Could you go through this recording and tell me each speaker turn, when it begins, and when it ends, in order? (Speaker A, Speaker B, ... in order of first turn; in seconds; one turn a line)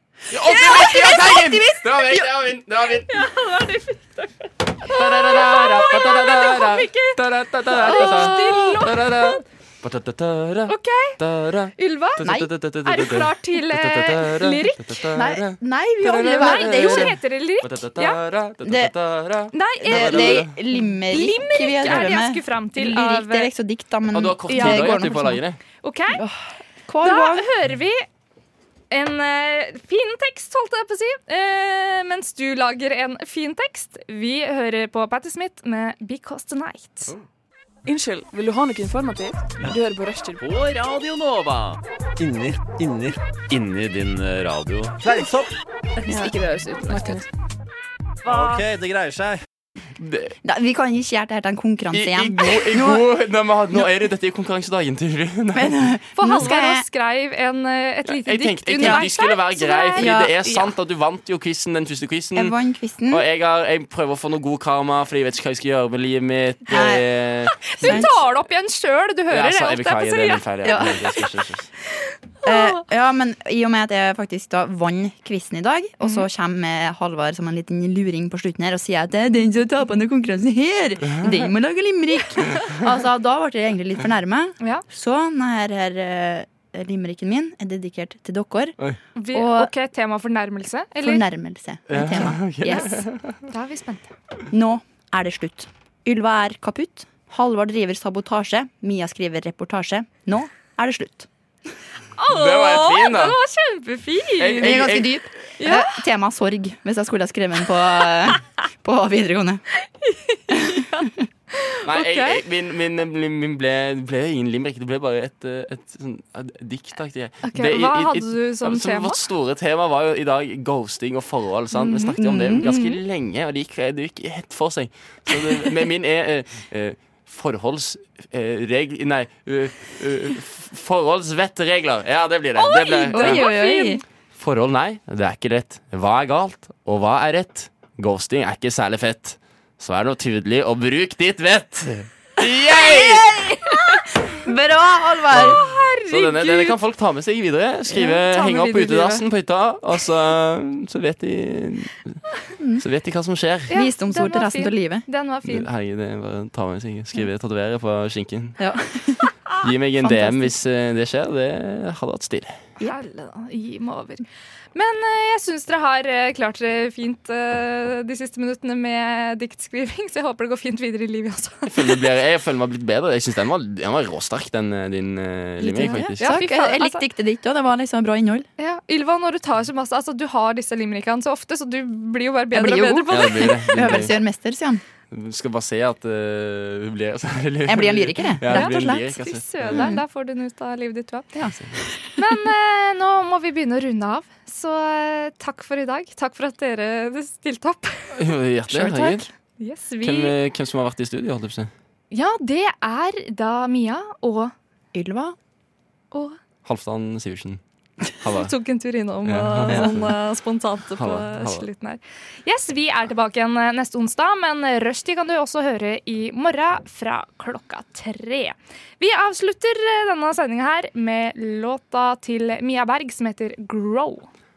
Speaker A: 0.3-3.2
Speaker B: 0.5-2.3
Speaker C: 3.1-9.4
Speaker A: 4.8-20.5
Speaker B: 7.8-8.7
Speaker C: 10.7-11.2
Speaker C: 11.8-12.2
Speaker B: 12.2-12.5
Speaker C: 12.8-15.0
Speaker B: 15.1-17.1
Speaker C: 16.3-18.2
Speaker B: 18.6-18.9
Speaker C: 19.5-23.5
Speaker B: 19.8-25.4
Speaker A: 24.1-25.6
Speaker C: 24.5-25.1
Speaker C: 25.8-26.2
Speaker B: 26.1-27.5
Speaker C: 27.0-28.0
Speaker C: 28.9-37.1
Speaker D: 37.9-40.4
Speaker E: 42.2-43.7
Speaker E: 44.9-45.5
Speaker D: 46.0-47.3
Speaker E: 48.2-49.4
Speaker A: 50.0-50.3
Speaker B: 50.4-53.0
Speaker A: 51.9-55.8
Speaker B: 55.5-56.8
Speaker C: 56.2-60.6
Speaker A: 58.1-62.6
Speaker B: 58.8-59.1
Speaker B: 59.9-60.5
Speaker B: 62.3-63.2
Speaker A: 63.1-68.1
Speaker B: 66.7-67.0
Speaker C: 67.6-71.0
Speaker B: 67.8-68.2
Speaker A: 69.3-71.7
Speaker B: 70.6-71.2
Speaker C: 72.4-72.8
Speaker B: 72.4-88.8
Speaker A: 81.0-81.5
Speaker C: 89.2-91.2
Speaker B: 89.3-89.7
Speaker B: 91.0-93.0
Speaker A: 91.9-93.4
Speaker C: 92.7-94.1
Speaker B: 94.5-101.3
Speaker C: 102.2-104.9
Speaker A: 102.3-103.4
Speaker A: 104.4-105.2
Speaker B: 104.6-109.6
Speaker C: 105.6-106.0
Speaker C: 109.8-112.4
Speaker B: 110.5-111.2
Speaker A: 111.8-133.4
Speaker C: 117.4-119.2
Speaker C: 121.7-123.0
Speaker B: 122.2-122.7
Speaker C: 132.6-134.0
Speaker B: 133.1-134.0
Speaker A: 134.4-143.2
Speaker B: 142.7-145.6
Speaker A: 145.3-152.2
Speaker C: 145.5-146.8
Speaker C: 147.9-149.2
Speaker B: 152.6-152.8
Speaker A: 152.8-153.7
Speaker C: 153.7-155.7
Speaker B: 153.7-155.0
Speaker A: 155.4-158.6
Speaker B: 158.6-159.3
Speaker A: 159.6-162.6
Speaker B: 160.0-160.5
Speaker C: 162.8-171.9
Speaker A: 171.7-176.2
Speaker B: 175.6-178.5
Speaker C: 175.8-177.0
Speaker C: 178.6-184.1
Speaker B: 182.5-184.8
Speaker A: 183.1-184.1
Speaker A: 185.1-189.9
Speaker B: 187.7-189.1
Speaker C: 188.5-191.3
Speaker B: 189.7-190.0
Speaker B: 191.3-192.1
Speaker C: 192.2-200.3
Speaker A: 198.1-199.2
Speaker B: 198.8-199.1
Speaker A: 200.0-201.7
Speaker C: 202.1-204.5
Speaker B: 204.9-205.3
Speaker C: 206.1-206.4
Speaker A: 206.6-207.6
Speaker A: 208.2-208.5
Speaker C: 208.3-224.3
Speaker A: 209.2-210.2
Speaker A: 210.9-211.7